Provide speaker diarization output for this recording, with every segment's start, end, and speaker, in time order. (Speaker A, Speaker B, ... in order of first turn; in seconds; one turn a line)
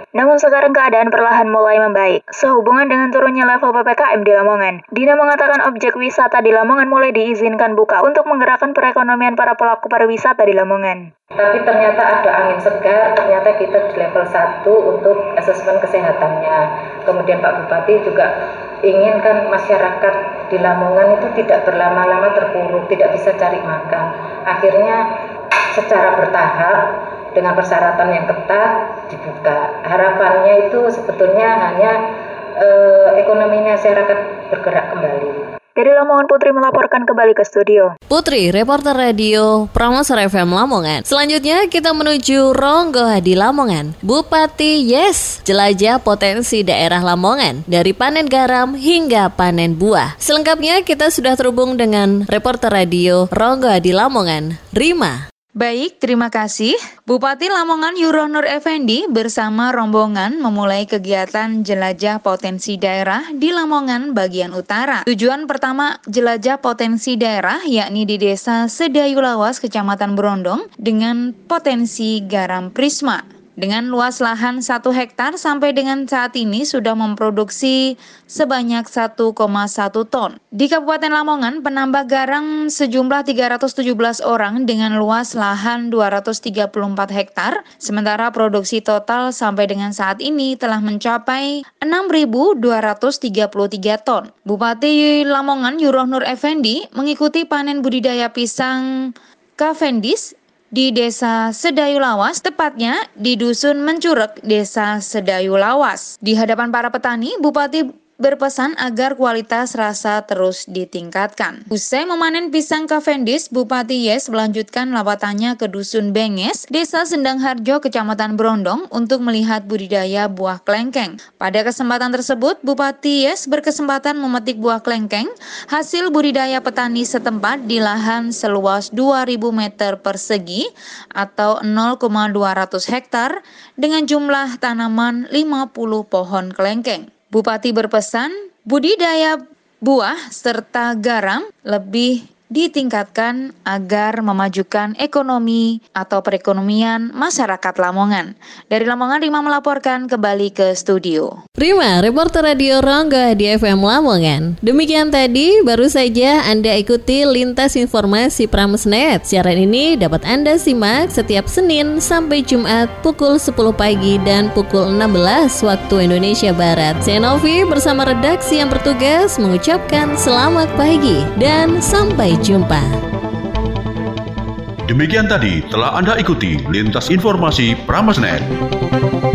Speaker A: 0.1-11.1
Speaker B: 11.4-18.3
Speaker B: 18.9-25.0
Speaker B: 25.7-26.8
Speaker B: 27.3-31.9
Speaker B: 32.6-35.4
Speaker A: 35.8-37.9
Speaker C: 38.1-55.2
Speaker D: 55.6-98.8
Speaker D: 99.6-130.6
Speaker D: 131.2-151.3
Speaker C: 151.6-172.9
Speaker E: 174.9-178.5